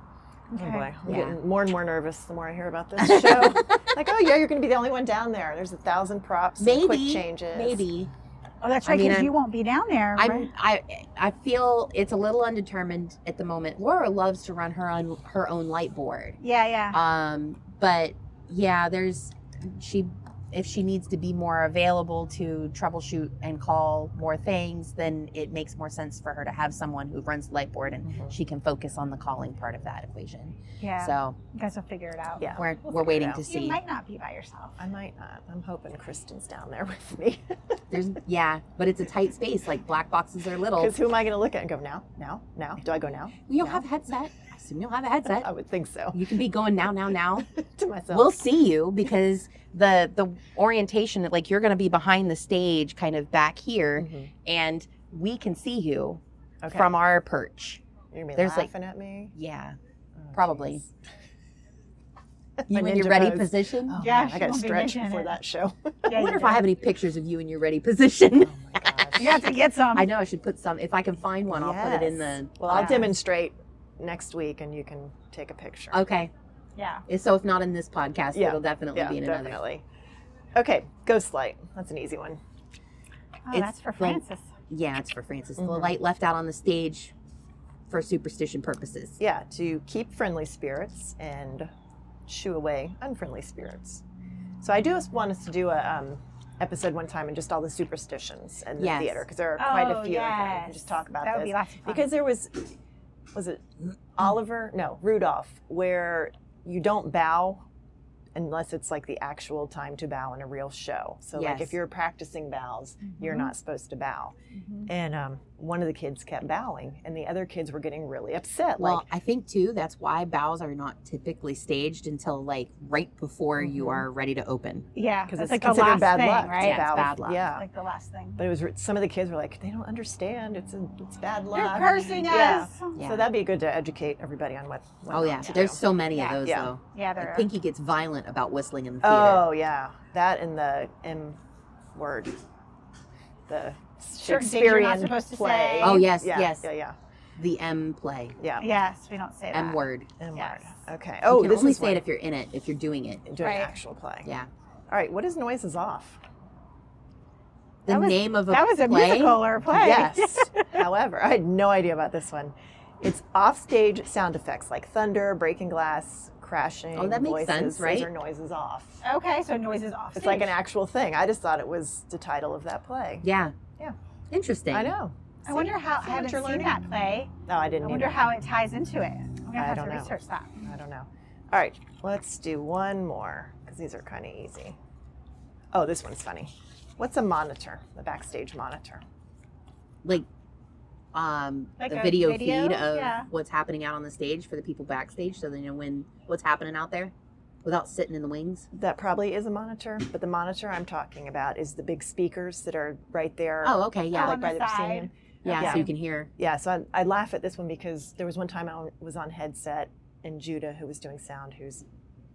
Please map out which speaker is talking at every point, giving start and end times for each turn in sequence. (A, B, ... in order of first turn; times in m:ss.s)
0:00.5-0:00.9 A
0:00.5-0:07.8 B
0:01.0-0:01.4 C
0:03.1-0:03.8 C
0:06.6-0:08.1 C
0:08.6-0:10.5 A
0:08.8-0:09.3 C
0:10.2-0:16.4 C
0:16.4-0:17.0 A
0:16.9-0:31.4 C
0:28.0-0:28.4 B
0:30.8-0:32.6 A
0:32.4-0:33.4 B
0:32.6-0:33.8 C
0:33.4-0:34.8 A
0:34.8-0:37.8 B
0:37.9-0:40.9 C
0:40.8-0:43.8 B
0:43.5-0:45.5 C
0:45.3-0:46.2 B
0:46.1-0:47.5 C
0:47.5-0:48.4 B
0:48.1-0:56.2 C
0:54.0-0:54.3 B
0:56.6-0:56.9 B
0:56.7-0:57.8 C
0:58.1-0:59.3 B
0:58.4-0:58.7 C
0:59.3-0:59.8 C
1:00.2-1:00.9 B
1:00.3-1:00.8 C
1:02.6-1:06.2 B
1:02.7-1:04.0 C
1:04.0-1:05.4 A
1:06.1-1:06.6 A
1:06.1-1:09.4 C
1:08.4-1:09.5 B
1:09.2-1:10.1 A
1:09.9-1:13.1 C
1:11.5-1:16.0 B
1:15.9-1:16.3 C
1:16.8-1:17.0 A
1:17.1-1:19.6 C
1:18.3-1:19.8 B
1:20.5-1:22.4 B
1:23.4-1:24.5 A
1:23.5-1:27.1 C
1:25.6-1:26.0 B
1:27.9-1:29.2 C
1:29.2-1:31.7 B
1:32.3-1:34.0 B
1:34.6-1:42.8 B
1:38.8-1:39.2 C
1:39.6-1:42.1 A
1:43.3-1:47.6 B
1:48.3-1:59.1 B
1:51.3-1:51.8 C
1:53.0-1:53.5 A
1:54.6-1:54.9 A
1:58.8-2:04.9 C
2:03.6-2:04.1 B
2:04.9-2:08.4 A
2:05.3-2:07.6 B
2:06.6-2:07.4 C
2:08.4-2:15.8 B
2:11.5-2:13.0 A
2:12.9-2:13.3 C
2:15.1-2:19.5 C
2:16.1-2:17.5 A
2:16.4-2:16.7 B
2:19.0-2:21.4 B
2:21.9-2:22.4 B
2:23.5-2:27.0 B
2:24.2-2:26.0 A
2:25.8-2:26.7 C
2:27.4-2:28.4 C
2:28.4-2:28.7 B
2:28.6-2:29.8 A
2:29.5-2:30.1 C
2:30.2-2:32.0 B
2:30.3-2:30.6 A
2:31.3-2:33.3 C
2:33.2-2:34.3 B
2:33.4-2:33.8 A
2:34.2-2:34.5 C
2:34.9-2:36.2 B
2:37.8-2:39.4 C
2:37.9-2:40.8 A
2:39.7-2:49.0 B
2:46.9-2:48.1 C
2:49.0-2:50.5 A
2:50.1-2:53.2 B
2:53.2-2:53.5 C
2:54.3-2:54.9 C
2:54.7-2:56.8 B
2:55.5-2:57.3 A
2:57.5-2:58.3 B
2:57.8-3:00.6 A
2:59.5-3:04.8 B
3:05.7-3:09.0 B
3:11.1-3:18.7 C
3:11.8-3:13.3 A
3:18.7-3:31.8 B
3:23.6-3:24.4 C
3:24.1-3:25.9 A
3:25.4-3:26.3 C